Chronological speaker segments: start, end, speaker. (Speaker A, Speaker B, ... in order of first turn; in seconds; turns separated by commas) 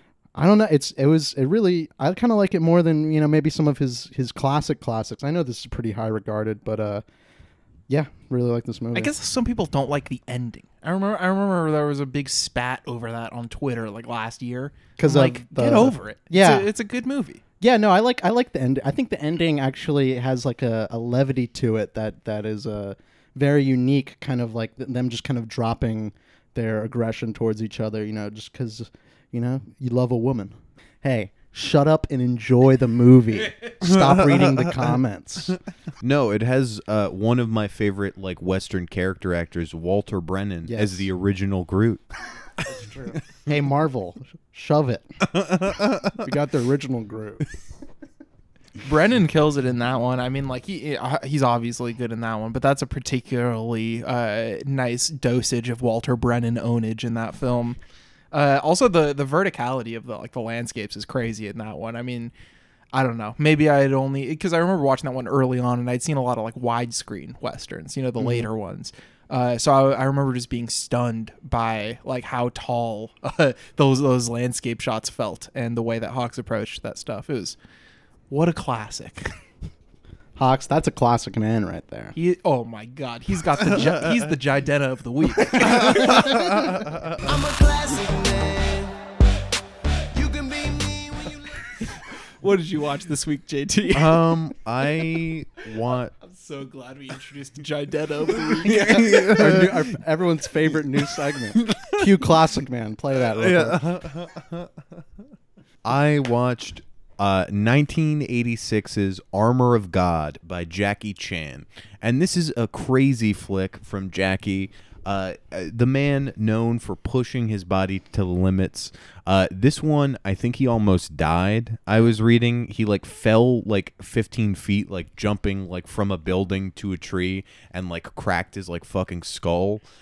Speaker A: 0.3-7.0, Speaker A: 7.9-9.1, Speaker B: 8.9-17.4, Speaker A: 15.0-16.7, Speaker A: 17.6-35.6, Speaker C: 33.8-34.8, Speaker C: 36.0-42.0, Speaker A: 40.7-41.1, Speaker A: 42.7-45.3, Speaker C: 45.4-46.2, Speaker A: 46.2-47.5, Speaker B: 48.8-57.8, Speaker B: 58.3-62.3, Speaker B: 62.9-77.6, Speaker A: 68.2-68.5, Speaker B: 78.3-79.3, Speaker A: 80.4-82.1, Speaker B: 82.2-86.4, Speaker A: 85.6-86.3, Speaker C: 86.2-87.1, Speaker B: 90.4-90.8, Speaker B: 91.8-94.3, Speaker C: 93.9-96.1, Speaker B: 96.2-98.8, Speaker C: 98.6-100.0, Speaker A: 98.6-103.9, Speaker C: 101.6-102.1, Speaker C: 103.3-104.7, Speaker C: 105.8-129.8